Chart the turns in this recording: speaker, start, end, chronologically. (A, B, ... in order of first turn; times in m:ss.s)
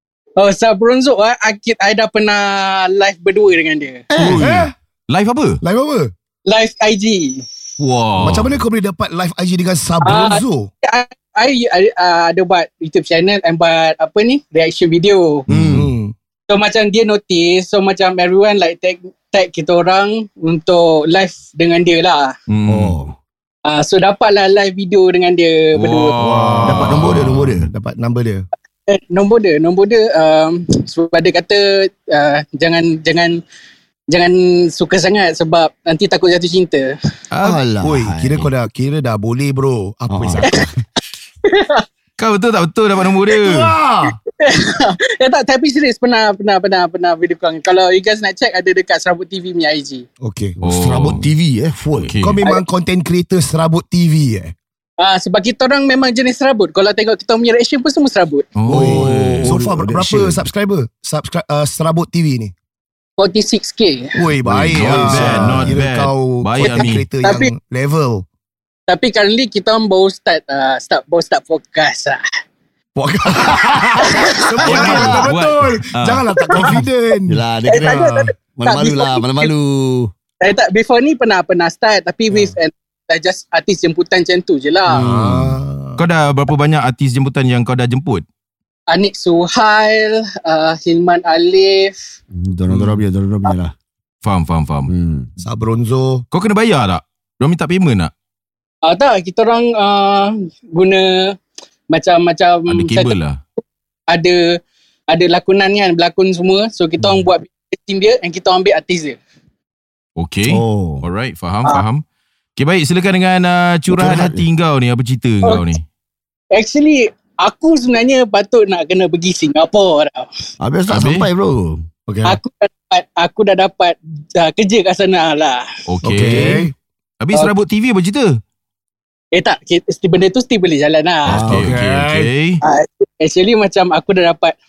0:00.4-0:04.0 A
0:04.1-0:04.7 B
0:04.2-0:05.6 C
0:04.4-0:04.7 D
0:05.6-0:06.1 D
0:06.5-0:07.5 A
0:07.8-0:08.6 C
0:08.2-0:10.7 D
0:10.0-0:15.4 A
0:15.5-0:15.8 C
0:15.5-0:15.9 B
0:15.6-0:16.1 D
0:16.5-0:22.4 A
0:22.5-0:23.0 C
0:22.7-0:23.2 B
0:23.6-0:26.2 A
0:25.8-0:27.3 C
0:26.2-0:28.5 D
0:26.2-0:27.7 B
0:28.9-0:33.4 A
0:34.1-0:37.0 A
0:37.3-0:37.6 C
0:37.4-0:38.5 B
0:37.8-0:40.7 D
0:40.1-0:40.6 B
0:41.4-0:41.8 A
0:42.2-0:43.7 C
0:43.4-0:44.2 D
0:44.4-0:50.1 A
0:50.2-0:50.6 D
0:50.6-0:52.2 B
0:50.6-0:51.3 C
0:52.0-0:52.4 C
0:52.2-0:54.6 D
0:55.0-0:58.5 A
0:58.6-0:59.5 C
0:58.6-1:00.5 B
0:58.7-1:02.5 D
1:03.2-1:04.1 A
1:04.2-1:08.3 D
1:04.4-1:05.8 B
1:04.7-1:07.0 C
1:06.6-1:07.5 A
1:08.9-1:12.2 A
1:13.0-1:17.4 D
1:14.0-1:15.1 A
1:14.6-1:16.8 C
1:14.6-1:15.3 B
1:17.3-1:20.1 B
1:17.7-1:19.5 A
1:20.4-1:25.1 A
1:24.9-1:25.6 B
1:24.9-1:26.0 D
1:26.0-1:28.2 C
1:28.9-1:32.0 A
1:32.3-1:33.8 B
1:32.7-1:33.0 C
1:34.2-1:34.9 C
1:34.9-1:35.3 B
1:35.4-1:36.2 D
1:36.3-1:38.1 C
1:38.8-1:41.4 A
1:41.9-1:43.1 A
1:42.7-1:43.4 C
1:44.1-1:44.6 A
1:45.1-1:49.2 A
1:50.2-1:52.0 C
1:50.5-1:51.1 B
1:52.6-1:55.8 C
1:53.9-1:54.4 B
1:56.5-2:00.3 A
2:00.6-2:01.9 B
2:00.9-2:01.3 C
2:02.1-2:02.4 D
2:02.2-2:05.7 A
2:05.9-2:06.7 C
2:06.0-2:06.7 D
2:07.2-2:08.4 C
2:09.3-2:11.4 A
2:11.2-2:11.7 B
2:11.4-2:12.6 C
2:11.4-2:12.3 D
2:12.6-2:14.6 A